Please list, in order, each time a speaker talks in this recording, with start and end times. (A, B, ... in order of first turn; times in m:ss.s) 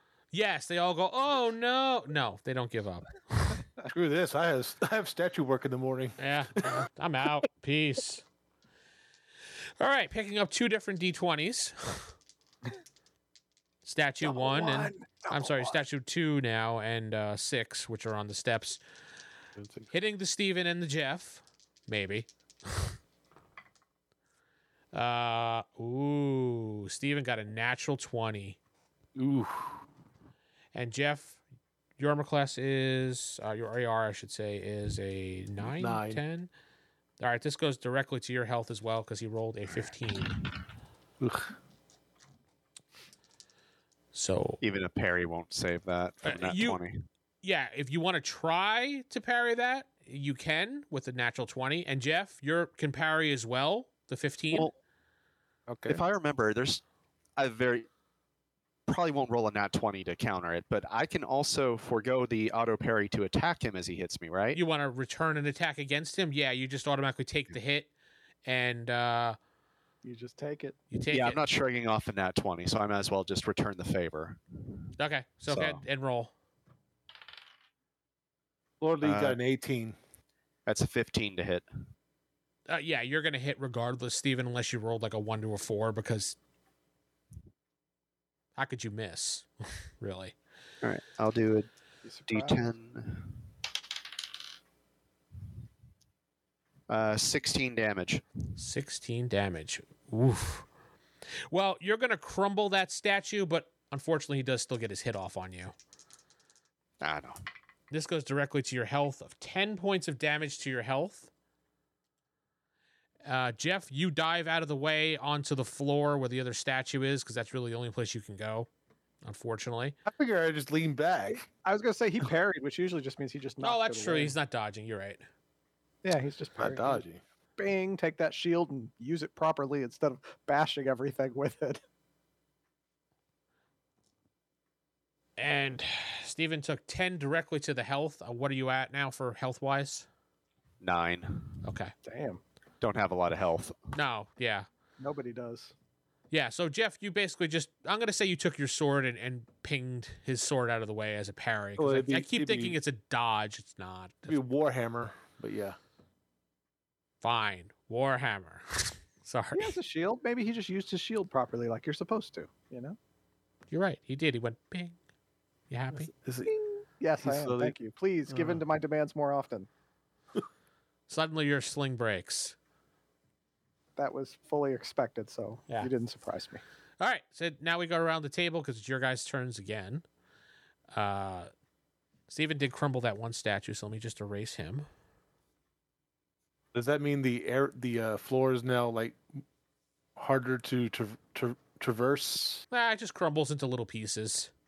0:00.3-0:03.6 A
0:03.9-0:06.8 B
0:06.2-0:08.2 A
0:09.8-0:12.1 A
0:13.8-0:18.8 A
0:14.2-0:15.8 C
0:19.6-0:19.9 B
0:19.9-0:23.0 A
0:24.9-0:28.6 A
0:29.2-0:29.8 B
0:30.7-0:31.4 A
0:32.0-0:36.5 A
0:35.6-0:36.2 B
0:37.2-0:40.3 A
0:41.2-0:41.5 B
0:44.1-0:44.6 A
0:44.6-0:47.0 D
0:46.2-0:46.8 A
0:47.4-0:54.7 A
0:55.7-0:56.0 B
0:55.9-0:56.8 D
0:57.4-0:57.9 D
0:58.9-1:04.6 D
1:04.5-1:07.9 A
1:08.4-1:09.4 A
1:10.0-1:10.8 C
1:10.9-1:11.4 A
1:11.1-1:14.4 D
1:15.0-1:16.3 A
1:15.5-1:15.8 D
1:18.8-1:20.0 B
1:19.0-1:19.4 D
1:20.6-1:21.6 D
1:22.7-1:26.4 A
1:28.6-1:29.5 A
1:30.0-1:30.4 A
1:30.8-1:31.7 D
1:32.0-1:32.7 C
1:32.3-1:33.4 D
1:36.9-1:38.2 D
1:38.6-1:40.7 A
1:41.5-1:45.7 A
1:47.0-1:47.4 D
1:47.9-1:51.3 A
1:53.2-1:58.7 A
1:59.2-2:00.0 A
2:00.0-2:01.5 B
2:01.6-2:04.3 C
2:03.6-2:05.2 A
2:06.0-2:07.0 C
2:06.6-2:07.2 B
2:07.6-2:11.8 C
2:15.4-2:20.1 A
2:20.8-2:21.6 D
2:21.6-2:21.9 A
2:22.0-2:22.4 C
2:22.8-2:23.8 D
2:23.9-2:24.7 A
2:25.0-2:25.7 C
2:26.3-2:34.4 A
2:31.8-2:32.8 B
2:34.2-2:35.8 B
2:37.2-2:39.8 A
2:39.5-2:43.0 C
2:43.7-2:45.0 A
2:45.7-2:46.1 A
2:46.0-2:46.5 B
2:46.5-2:49.7 C
2:47.2-2:47.7 B
2:48.3-2:48.6 B
2:51.1-2:52.5 A
2:54.0-2:56.6 C
2:57.0-3:00.0 A
3:00.9-3:01.5 A
3:02.3-3:04.8 A
3:06.7-3:09.2 B
3:10.2-3:12.6 B
3:12.7-3:14.5 A